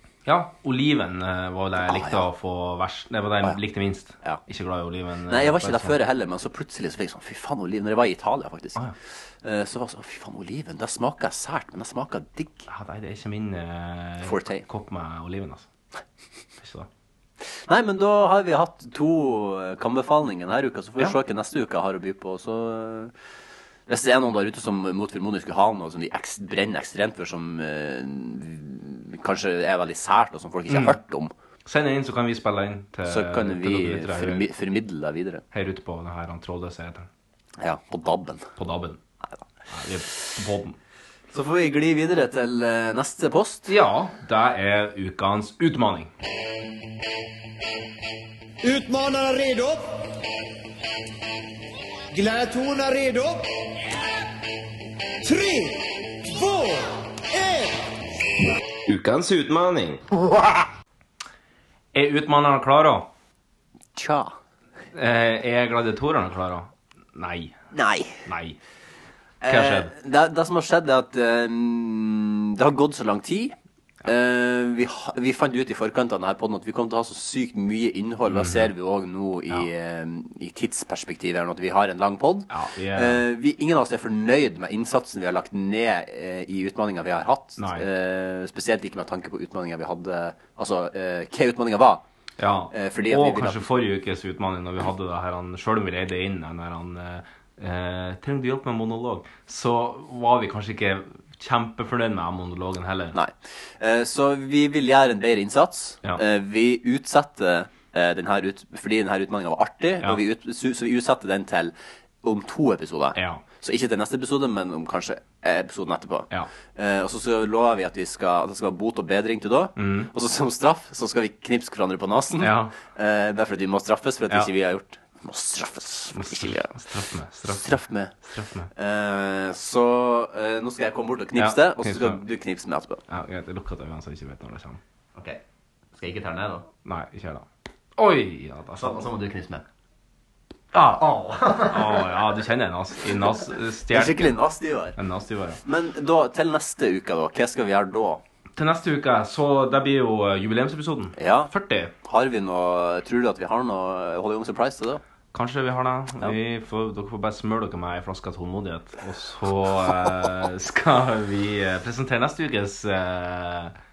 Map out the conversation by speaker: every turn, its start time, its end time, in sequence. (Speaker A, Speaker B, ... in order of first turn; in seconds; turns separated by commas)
Speaker A: 0.2-6.0, Speaker B: 1.8-2.2, Speaker B: 5.3-8.8, Speaker B: 9.4-12.7, Speaker A: 12.7-15.7, Speaker B: 14.2-14.7, Speaker A: 16.6-16.9, Speaker B: 17.4-23.1, Speaker B: 23.9-31.3, Speaker A: 30.7-31.0, Speaker A: 31.6-34.5, Speaker B: 33.0-35.4, Speaker A: 35.5-37.1, Speaker B: 37.6-38.5, Speaker A: 38.6-39.0, Speaker A: 39.7-40.8, Speaker B: 41.3-43.7, Speaker A: 43.7-46.1, Speaker C: 48.6-49.8, Speaker C: 52.1-53.4, Speaker C: 55.2-55.7, Speaker C: 56.4-56.8, Speaker A: 58.9-60.0, Speaker A: 61.9-63.1, Speaker B: 63.9-64.3, Speaker A: 64.9-67.6, Speaker B: 67.7-68.2, Speaker A: 68.2-68.6, Speaker B: 69.4-73.5, Speaker A: 69.4-69.9, Speaker B: 74.0-92.0, Speaker A: 78.3-78.7, Speaker A: 82.5-83.2, Speaker A: 87.6-87.9, Speaker A: 92.4-103.2, Speaker B: 92.7-93.6, Speaker B: 103.1-126.8, Speaker A: 113.1-113.4, Speaker A: 119.8-120.1, Speaker A: 122.4-122.8, Speaker A: 126.1-128.7, Speaker B: 127.4-128.1, Speaker B: 128.7-133.0, Speaker A: 131.3-132.2, Speaker A: 133.1-134.8, Speaker B: 135.2-135.4, Speaker B: 135.9-136.7, Speaker A: 136.8-137.4, Speaker A: 138.0-139.1, Speaker B: 138.8-139.6, Speaker B: 140.7-141.8, Speaker A: 141.7-144.4, Speaker B: 143.9-145.0, Speaker A: 144.9-145.6, Speaker B: 145.6-148.2, Speaker A: 148.5-151.9, Speaker B: 151.2-151.5, Speaker B: 152.0-155.0, Speaker A: 155.3-163.7